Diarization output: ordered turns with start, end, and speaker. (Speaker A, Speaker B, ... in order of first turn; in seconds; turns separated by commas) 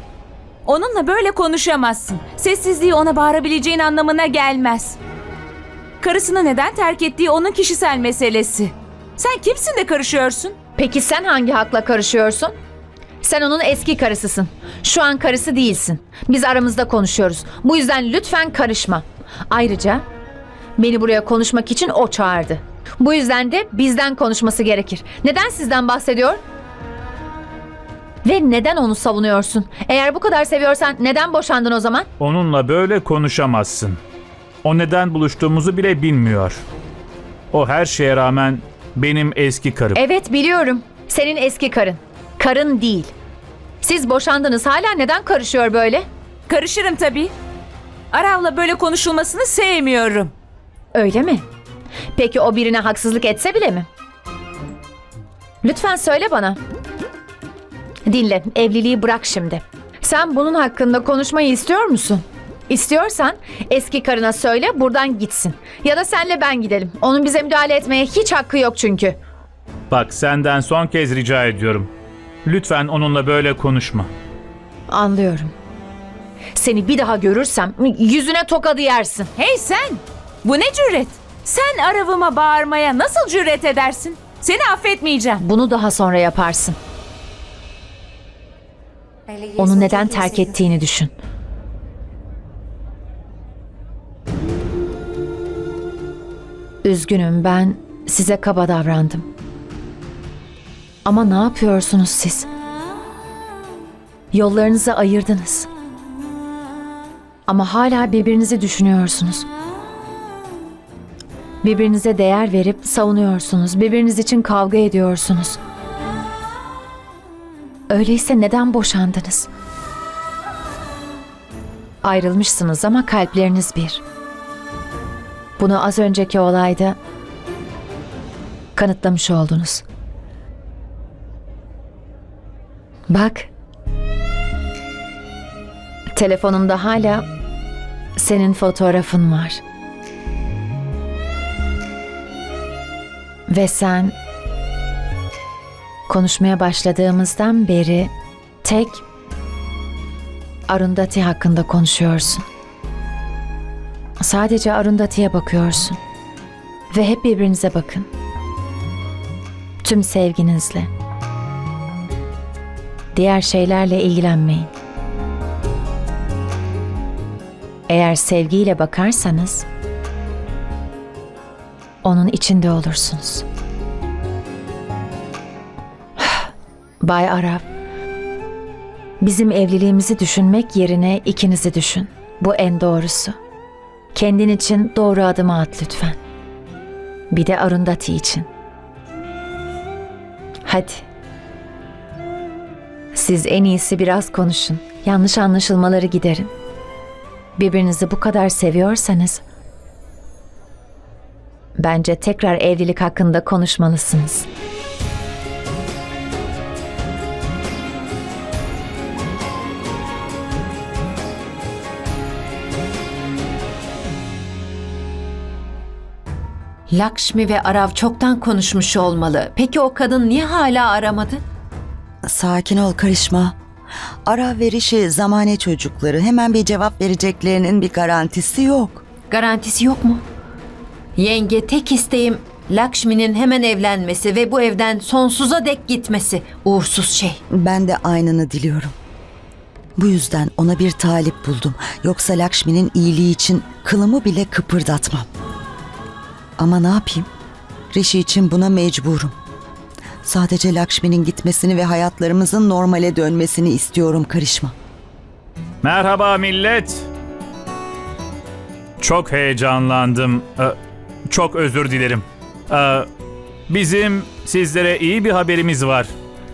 Speaker A: 0.7-5.0, Speaker A: 6.0-10.5, Speaker B: 10.8-12.5, Speaker B: 13.2-20.0, Speaker B: 20.8-26.4, Speaker B: 28.2-32.1, Speaker C: 32.2-34.0, Speaker C: 34.6-36.6, Speaker C: 37.5-40.0, Speaker B: 39.9-43.1, Speaker B: 43.8-46.0, Speaker A: 46.5-47.3, Speaker A: 48.1-50.3, Speaker B: 50.9-51.4, Speaker B: 52.1-53.9, Speaker B: 55.6-56.6, Speaker B: 58.0-69.2, Speaker C: 69.9-71.9, Speaker C: 72.5-74.1, Speaker B: 74.9-75.5, Speaker B: 76.5-79.3, Speaker A: 79.4-85.4, Speaker B: 85.4-86.8, Speaker D: 89.5-90.2, Speaker B: 89.6-91.1, Speaker B: 96.8-99.3, Speaker B: 101.0-102.5, Speaker B: 104.3-105.7, Speaker B: 107.5-109.5, Speaker B: 111.6-115.6, Speaker B: 117.9-119.5, Speaker B: 122.0-124.0, Speaker B: 125.6-127.0, Speaker B: 128.8-129.8, Speaker B: 133.1-133.5, Speaker B: 136.2-137.3, Speaker B: 138.2-139.6, Speaker B: 143.5-144.2, Speaker B: 146.1-148.1, Speaker B: 148.6-149.0, Speaker B: 150.7-152.4, Speaker B: 154.2-156.0, Speaker B: 156.9-158.1, Speaker B: 159.8-160.9, Speaker B: 163.1-164.7, Speaker B: 167.9-169.7, Speaker B: 172.0-173.4, Speaker B: 176.2-176.5, Speaker B: 177.0-177.6, Speaker B: 179.2-183.4, Speaker B: 184.1-186.2, Speaker B: 187.3-188.5, Speaker B: 190.6-191.1, Speaker B: 193.1-196.5, Speaker B: 197.6-199.4, Speaker B: 201.8-204.5, Speaker D: 216.9-221.4, Speaker E: 222.2-223.6, Speaker E: 224.2-229.0, Speaker D: 229.3-230.2, Speaker D: 231.2-237.4, Speaker E: 237.5-238.9, Speaker E: 239.9-245.3, Speaker E: 246.6-247.3, Speaker E: 247.9-249.3, Speaker E: 250.2-254.7, Speaker C: 255.8-257.1, Speaker C: 259.0-260.8, Speaker C: 261.3-263.1, Speaker C: 263.7-266.1